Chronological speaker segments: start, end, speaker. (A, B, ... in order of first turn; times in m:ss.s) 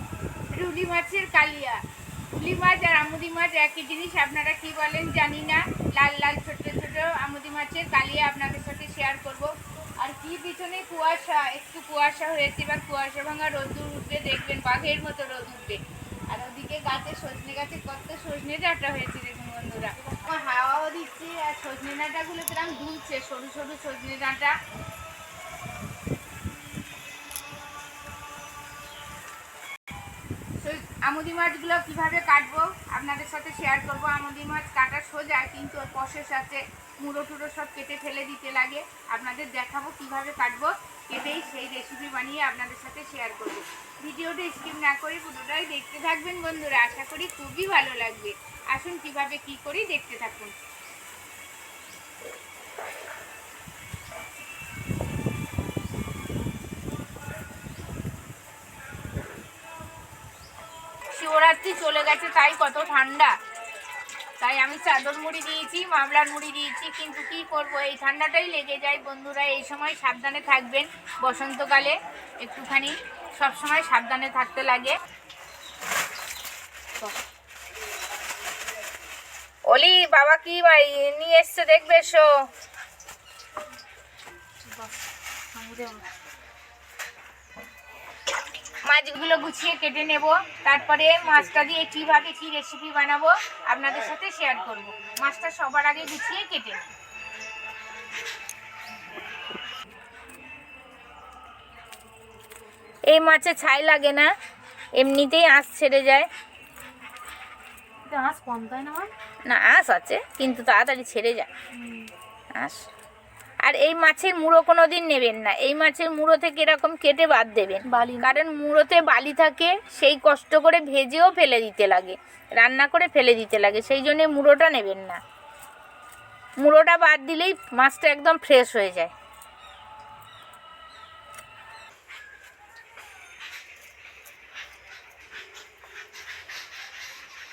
0:00.5-0:01.8 A
0:02.3-0:24.6 A
0:30.6-0:50.6 A
1:01.1-1:03.4 A
1:04.4-1:15.0 A
1:19.7-1:22.4 A
1:24.6-1:24.9 B
1:25.5-1:26.1 B
1:28.8-1:36.9 A
1:43.1-1:44.3 A
1:45.0-1:46.3 A
1:48.1-1:49.1 B
1:49.5-1:51.5 A
1:52.5-1:52.8 A
1:53.6-2:05.2 A
1:57.9-1:58.4 B
2:06.6-2:09.1 A